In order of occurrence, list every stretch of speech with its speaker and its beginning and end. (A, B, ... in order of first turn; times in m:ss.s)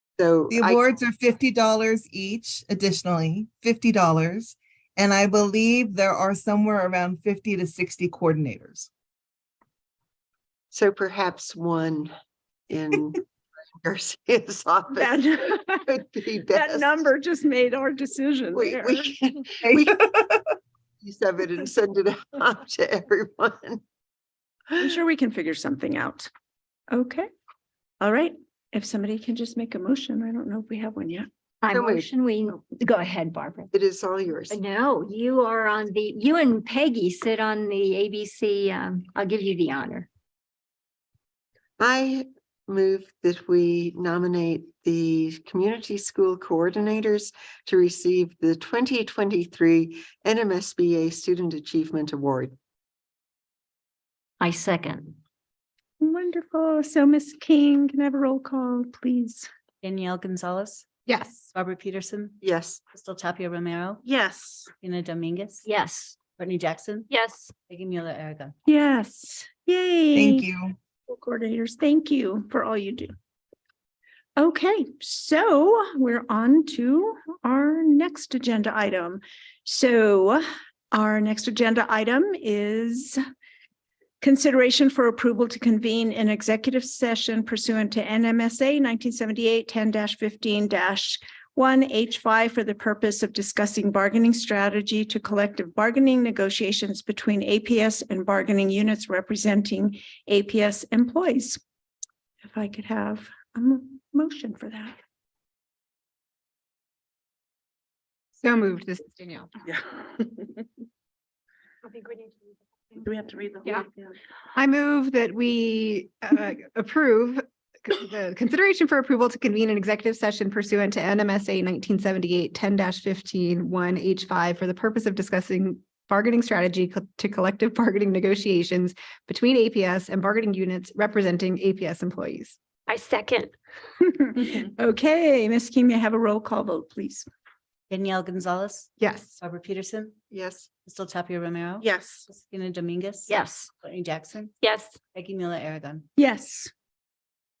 0:00.2-0:01.0 A
0:00.5-0:08.9 B
0:10.7-0:12.1 A
0:12.7-0:13.2 A
0:13.8-0:15.2 A
0:14.9-0:19.1 C
0:15.8-0:17.0 A
0:18.5-0:20.0 A
0:19.6-0:20.4 B
0:21.0-0:23.8 A
0:24.8-0:26.3 C
0:26.9-0:27.3 C
0:28.0-0:31.3 C
0:31.6-0:33.7 D
0:31.7-0:32.1 A
0:33.7-0:34.6 A
0:34.5-0:40.1 D
0:41.8-0:52.5 A
0:54.4-0:55.2 D
0:56.0-0:59.5 C
0:59.8-1:00.8 E
1:01.1-1:01.5 F
1:01.5-1:02.4 E
1:02.4-1:02.8 A
1:02.9-1:04.0 E
1:04.0-1:04.7 C
1:04.8-1:05.7 E
1:05.6-1:06.2 D
1:06.3-1:07.1 E
1:07.1-1:07.5 D
1:07.6-1:08.5 E
1:08.6-1:10.5 C
1:10.1-1:10.7 B
1:11.1-1:13.1 C
1:14.4-1:23.2 C
1:24.2-1:41.6 C
1:42.4-1:45.0 C
1:48.4-1:49.5 F
1:53.0-1:53.7 C
1:54.6-2:12.6 F
2:12.9-2:13.5 D
2:14.0-2:17.3 C
2:17.9-2:20.1 E
2:19.0-2:19.4 F
2:20.3-2:20.7 A
2:20.8-2:24.5 E
2:21.8-2:22.3 C
2:23.3-2:23.7 D
2:24.6-2:25.0 D
2:25.1-2:26.1 E
2:26.2-2:26.7 C